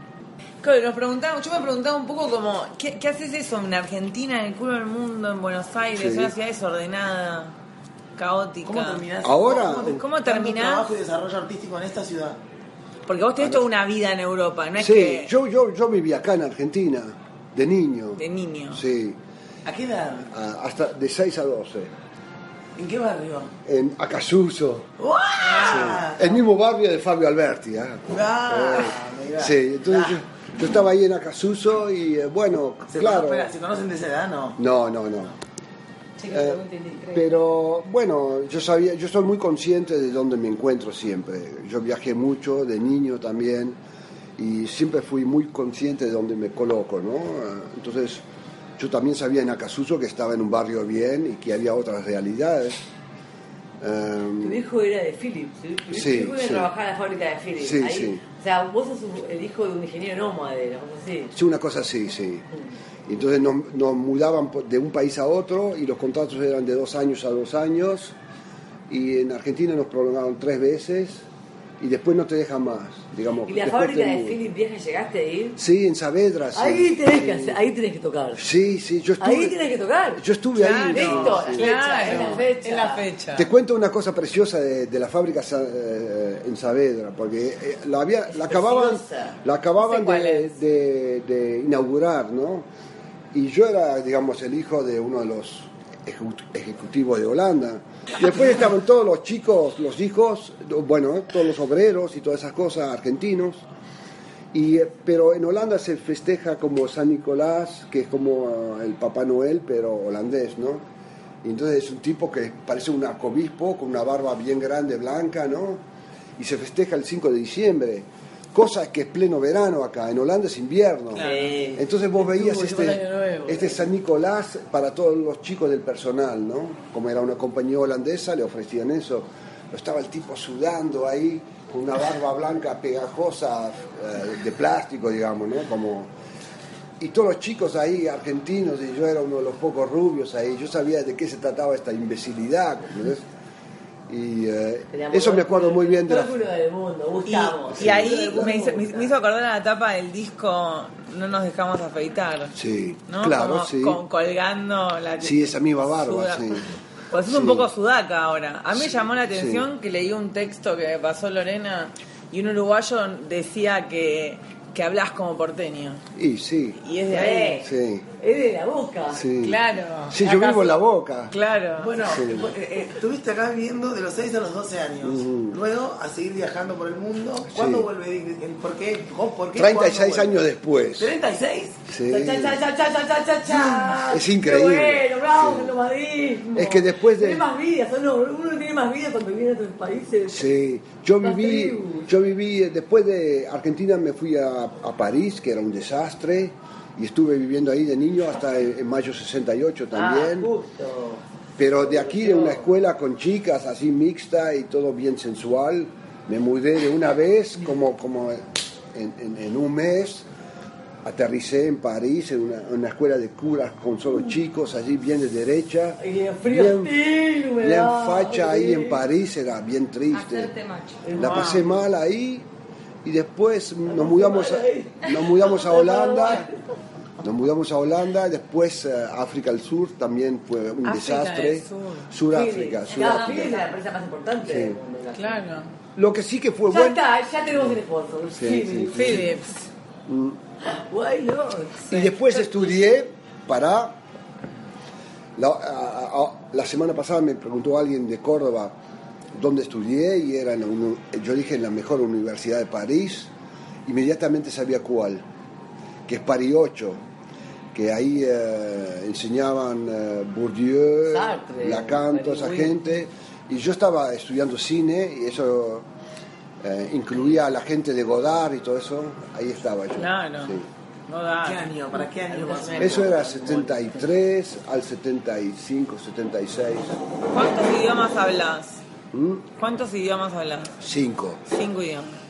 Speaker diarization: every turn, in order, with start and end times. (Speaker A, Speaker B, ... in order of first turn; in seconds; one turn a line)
Speaker A: 0.6-7.5
Speaker B: 5.9-6.3
Speaker A: 8.2-9.0
Speaker C: 8.6-12.4
Speaker B: 9.2-10.0
Speaker A: 9.8-10.9
Speaker A: 13.1-15.3
Speaker B: 13.4-13.6
Speaker B: 14.8-19.2
Speaker A: 18.2-18.8
Speaker C: 19.6-20.3
Speaker B: 20.3-21.9
Speaker C: 22.8-23.5
Speaker B: 23.6-24.9
Speaker C: 25.0-26.4
Speaker A: 25.5-26.0
Speaker B: 25.6-33.5
Speaker C: 28.1-30.2
Speaker C: 32.9-34.6
Speaker B: 34.6-35.4
Speaker D: 36.2-37.3
Speaker B: 36.3-36.6
Speaker B: 37.1-43.8
Speaker B: 44.4-48.2
Speaker B: 48.8-52.8
Speaker B: 53.8-54.6
Speaker E: 54.4-61.4
Speaker B: 55.9-56.7
Speaker B: 57.6-58.2
Speaker B: 61.3-62.5
Speaker B: 63.1-68.2
Speaker B: 68.9-71.2
Speaker B: 71.8-74.4
Speaker E: 73.5-75.6
Speaker B: 75.6-77.6
Speaker E: 76.5-78.4
Speaker B: 78.3-79.5
Speaker E: 79.2-80.2
Speaker B: 80.2-82.4
Speaker A: 80.6-83.5
Speaker E: 80.9-83.0
Speaker B: 83.3-92.7
Speaker E: 88.3-89.4
Speaker B: 93.3-103.7
Speaker B: 104.5-110.8
Speaker B: 111.4-115.8
Speaker B: 116.4-136.1
Speaker A: 121.1-121.5
Speaker E: 121.2-123.9
Speaker B: 137.0-143.3
Speaker B: 144.1-146.4
Speaker E: 144.9-149.2
Speaker A: 147.3-152.6
Speaker B: 147.7-148.4
Speaker B: 152.5-154.0
Speaker A: 153.1-166.0
Speaker B: 155.2-156.7
Speaker B: 157.2-157.7
Speaker B: 159.3-159.7
Speaker B: 166.2-166.8
Speaker A: 166.8-167.7
Speaker E: 167.1-169.2
Speaker B: 167.6-168.1
Speaker B: 169.1-171.3
Speaker A: 169.4-170.8
Speaker A: 171.3-171.9
Speaker C: 171.8-180.4
Speaker B: 172.1-172.5
Speaker B: 175.0-175.6
Speaker B: 177.5-177.9
Speaker B: 179.6-181.1
Speaker C: 181.0-181.8
Speaker B: 181.9-182.6
Speaker E: 182.1-190.5
Speaker B: 183.5-185.7
Speaker B: 186.6-187.5
Speaker B: 190.3-200.5
Speaker E: 191.2-192.1
Speaker E: 199.9-201.2
Speaker B: 201.6-210.3
Speaker E: 201.8-202.7
Speaker B: 211.0-217.0
Speaker E: 216.0-219.1
Speaker B: 217.6-220.5
Speaker D: 220.1-221.1
Speaker E: 221.1-221.6
Speaker A: 221.1-221.7
Speaker B: 221.2-222.5
Speaker B: 223.0-226.5
Speaker E: 223.9-226.5
Speaker B: 227.2-233.6
Speaker A: 230.8-232.1
Speaker E: 232.3-235.3
Speaker D: 232.9-233.7
Speaker B: 234.5-234.8
Speaker A: 235.2-235.7
Speaker B: 236.0-237.0
Speaker E: 236.7-239.2
Speaker B: 238.4-239.3
Speaker A: 238.9-239.7
Speaker B: 240.1-240.4
Speaker E: 240.6-242.7
Speaker B: 241.9-244.0
Speaker B: 245.4-248.8
Speaker B: 249.3-253.3
Speaker B: 253.8-255.2
Speaker B: 256.1-257.0
Speaker B: 257.7-265.9
Speaker E: 261.1-262.8
Speaker B: 266.6-270.7
Speaker A: 270.0-271.7
Speaker C: 271.4-273.3
Speaker E: 272.3-274.0
Speaker B: 272.8-277.0
Speaker A: 277.3-278.8
Speaker B: 279.1-279.5
Speaker A: 279.6-280.7
Speaker B: 280.8-281.4
Speaker A: 281.5-282.2